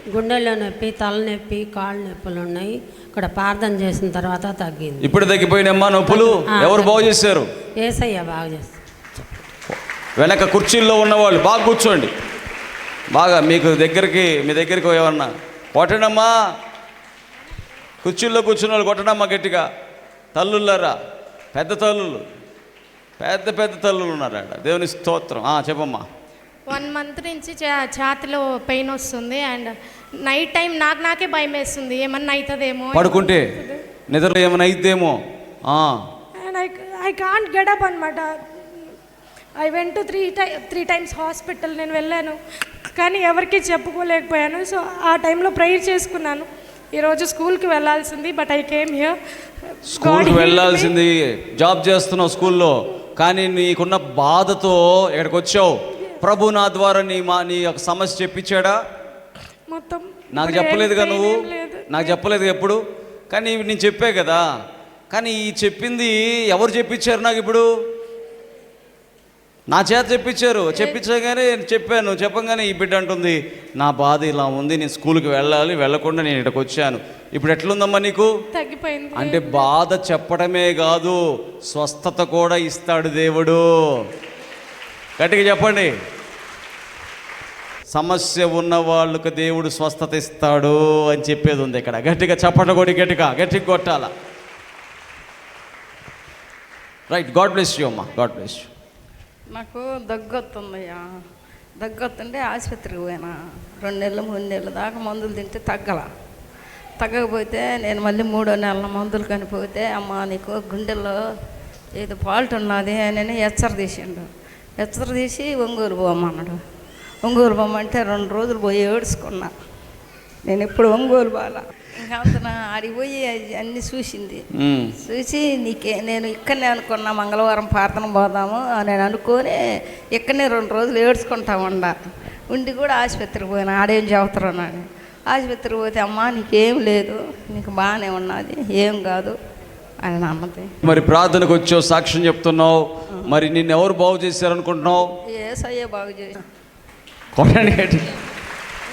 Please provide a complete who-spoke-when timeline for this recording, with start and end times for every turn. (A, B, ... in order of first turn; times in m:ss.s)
0:00.2-0:05.1 A
0:05.0-0:07.5 B
0:06.0-0:07.0 A
0:07.8-0:09.4 A
0:09.7-0:12.1 B
0:13.1-0:16.3 B
0:18.0-0:19.6 B
0:20.3-0:20.9 B
0:21.5-0:22.2 B
0:23.2-0:26.0 B
0:26.7-0:29.7 C
0:30.2-0:33.8 C
0:32.9-0:33.5 B
0:34.1-0:36.0 B
0:36.5-0:38.4 C
0:39.6-0:42.4 C
0:40.0-0:40.8 A
0:43.0-0:49.2 C
0:43.4-0:44.3 A
0:49.8-0:58.8 B
0:50.0-0:50.8 A
0:50.1-0:50.7 C
0:59.7-1:01.8 C
1:00.3-1:02.8 B
1:00.6-1:02.1 A
1:03.3-1:04.4 B
1:05.1-1:07.7 B
1:09.7-1:18.3 B
1:10.7-1:11.0 C
1:18.5-1:19.6 C
1:19.1-1:23.7 B
1:25.2-1:25.9 B
1:27.9-1:34.1 B
1:37.1-1:38.7 B
1:39.5-1:41.0 D
1:41.8-1:46.0 D
1:47.0-1:51.2 D
1:52.0-1:56.6 D
1:57.2-1:59.5 D
2:00.5-2:04.4 D
2:04.5-2:04.9 B
2:05.0-2:09.6 D
2:10.2-2:11.9 D
2:12.5-2:19.3 D
2:20.0-2:20.7 D
2:20.8-2:25.1 B
2:25.3-2:26.4 D
2:27.4-2:28.1 B